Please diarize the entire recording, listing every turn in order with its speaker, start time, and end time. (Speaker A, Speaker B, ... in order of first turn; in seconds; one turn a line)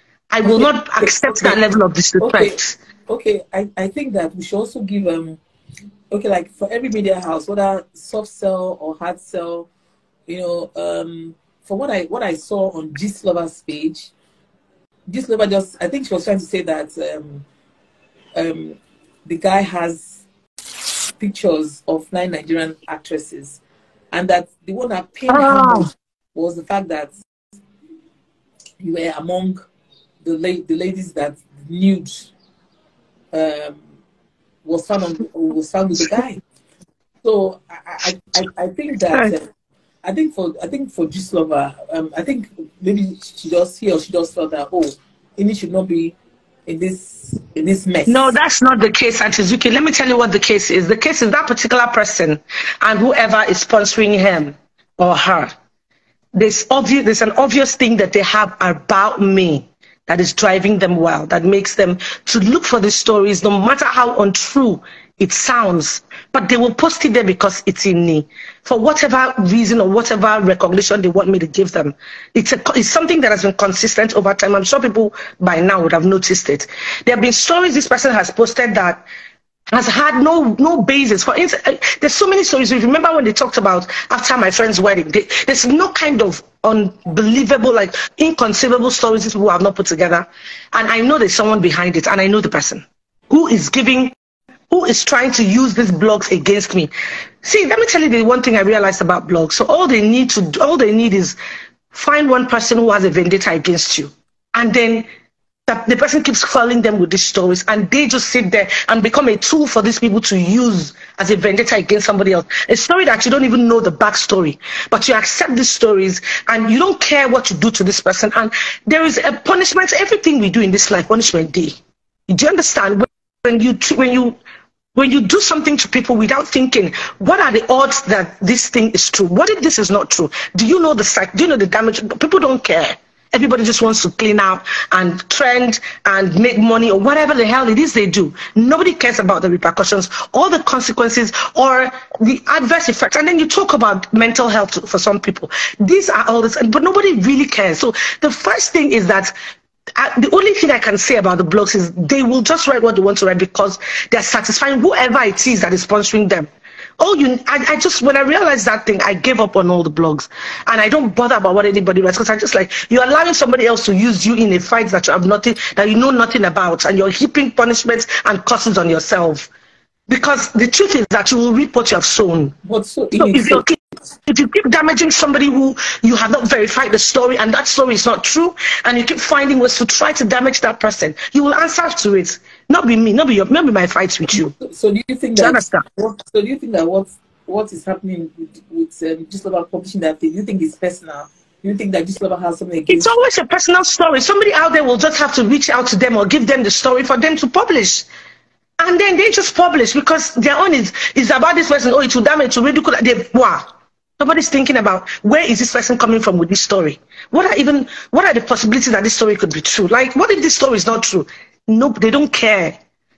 Speaker A: 0.3-2.8
Speaker B: 0.5-1.6
Speaker B: 2.2-5.4
Speaker B: 6.1-9.7
Speaker B: 10.3-14.1
Speaker B: 15.1-17.4
Speaker B: 18.4-20.2
Speaker B: 21.2-23.6
Speaker B: 24.1-27.2
Speaker A: 25.3-25.9
Speaker B: 28.8-29.6
Speaker B: 30.2-32.3
Speaker B: 33.3-33.8
Speaker B: 34.6-36.4
Speaker B: 37.2-39.5
Speaker B: 40.0-46.1
Speaker B: 46.7-48.3
Speaker A: 48.1-55.5
Speaker A: 56.4-79.0
Speaker A: 79.7-94.2
Speaker A: 94.7-96.9
Speaker A: 97.4-101.4
Speaker A: 101.9-105.1
Speaker A: 105.7-121.8
Speaker A: 122.3-124.4
Speaker A: 125.0-149.3
Speaker A: 150.0-169.5
Speaker A: 170.1-172.6
Speaker B: 172.6-173.6
Speaker A: 173.2-184.5
Speaker B: 184.3-193.1
Speaker A: 185.4-185.8
Speaker A: 192.9-198.1
Speaker A: 198.8-203.7
Speaker A: 204.2-212.8